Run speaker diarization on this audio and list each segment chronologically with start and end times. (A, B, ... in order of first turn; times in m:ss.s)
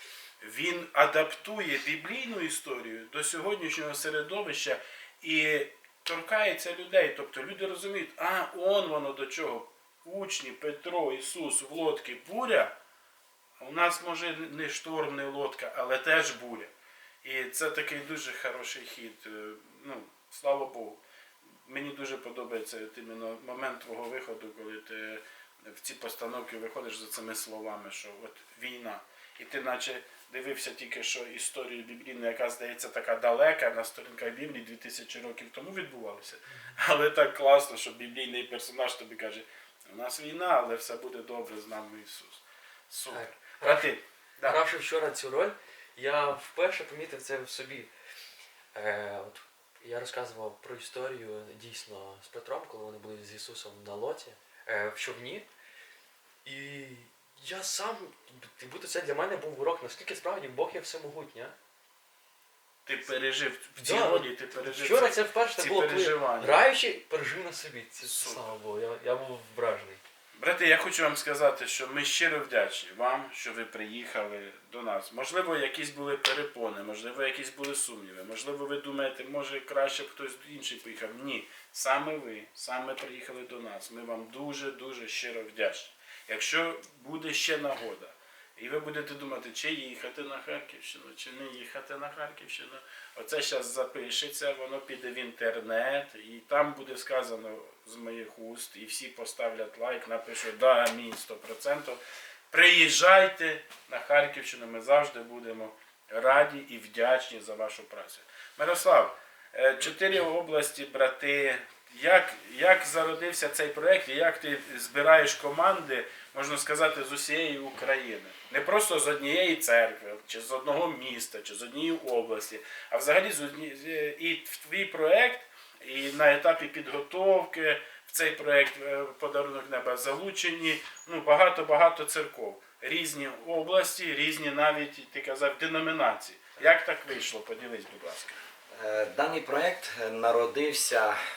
0:00.4-0:12.8 A
0:13.6-0:21.0 A
0:21.6-0:44.6 A
0:43.1-0:47.9 B
0:48.7-0:55.5 B
0:56.4-1:01.5 B
1:02.8-1:06.6 A
1:03.8-1:10.0 B
1:08.0-1:08.5 A
1:10.4-2:18.4 A
2:18.8-2:21.2 C